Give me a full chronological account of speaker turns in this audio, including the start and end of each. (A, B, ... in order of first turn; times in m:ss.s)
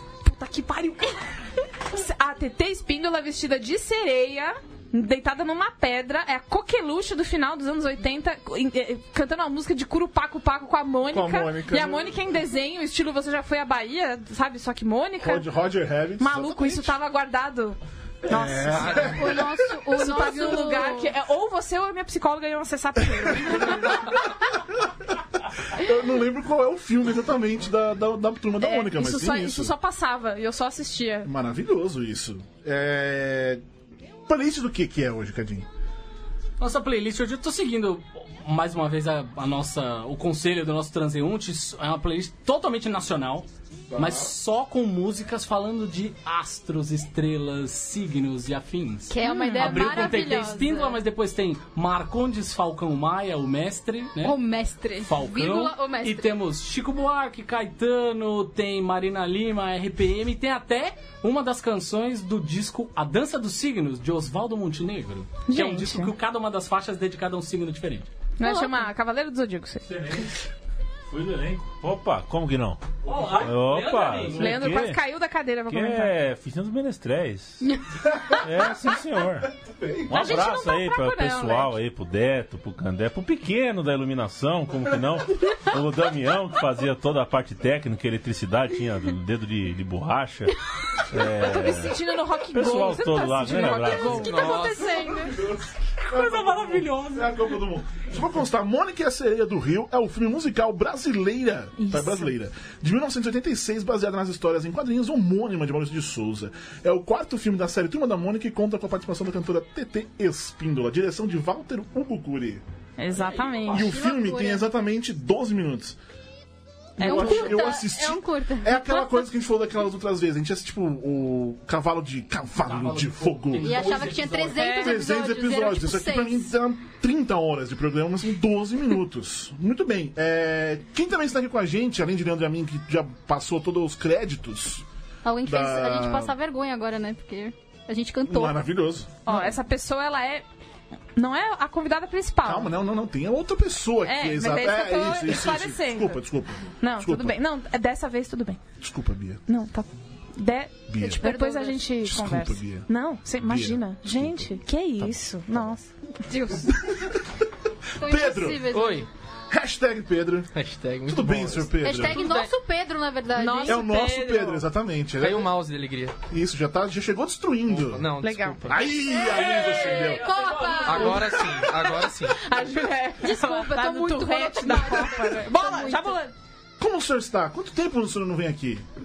0:00.2-0:15.5 A
0:11.1-0:12.2 B
0:15.2-0:17.0 B
0:16.2-0:19.1 A
0:18.3-0:19.6 B
0:18.8-0:19.2 C
0:19.1-0:21.1 D
0:19.9-0:24.2 A
0:23.2-0:23.9 B
0:25.7-0:29.7 B
0:28.6-0:31.3 A
0:31.2-0:33.6 B
0:34.3-0:35.7 B
0:36.6-0:54.4 E
0:43.9-0:44.3 B
0:49.1-0:51.0 D
0:49.2-0:50.3 A
0:54.2-0:56.4 D
0:55.0-1:08.1 E
1:05.5-1:06.1 A
1:08.4-1:09.9 A
1:08.4-1:08.8 D
1:09.9-1:10.3 F
1:11.1-1:12.8 F
1:13.0-1:14.6 E
1:13.4-1:15.0 F
1:14.3-1:16.2 A
1:15.7-1:17.6 F
1:18.0-1:18.4 B
1:18.4-1:19.5 F
1:19.6-1:20.5 B
1:20.1-1:30.6 F
1:20.1-1:21.8 A
1:31.1-1:32.0 F
1:31.2-1:35.3 A
1:32.5-1:34.5 F
1:34.2-1:35.3 D
1:34.2-1:34.9 C
1:35.3-1:52.6 B
1:36.0-1:37.4 E
1:41.8-1:42.3 A
1:53.0-1:53.9 A
1:53.1-1:54.0 E
1:53.7-1:56.0 B
1:54.0-1:54.6 D
1:57.0-1:57.6 A
1:57.0-2:03.9 B
1:57.0-1:59.3 D
2:02.6-2:04.7 E
2:03.6-2:06.5 D
2:04.5-2:05.1 A
2:04.7-2:14.8 B
2:15.2-2:18.7 D
2:15.4-2:16.4 B
2:18.3-2:19.6 B
2:19.3-2:20.4 A
2:21.2-2:22.7 A
2:22.4-2:27.4 B
2:24.0-2:26.2 A
2:26.8-2:28.6 A
2:28.8-2:29.4 B
2:29.5-2:35.9 A
2:30.9-2:31.3 B
2:31.1-2:31.9 D
2:32.0-2:32.9 B
2:33.4-2:35.8 B
2:36.2-2:36.8 D
2:36.7-2:37.2 B
2:38.0-2:39.1 D
2:38.0-2:38.7 B
2:38.7-2:39.1 C
2:39.5-2:40.5 B
2:40.5-2:42.5 C
2:41.1-2:42.2 B
2:41.8-2:43.8 D
2:43.4-2:44.6 A
2:43.7-2:45.5 B
2:45.2-2:46.2 C
2:46.3-2:48.1 B
2:47.7-2:48.9 C
2:48.2-2:48.7 A
2:48.6-2:50.3 B
2:49.1-2:51.2 D
2:49.1-2:51.5 E
2:50.8-2:52.4 C
2:52.3-2:56.3 A
2:53.2-2:56.2 D
2:56.8-2:58.8 B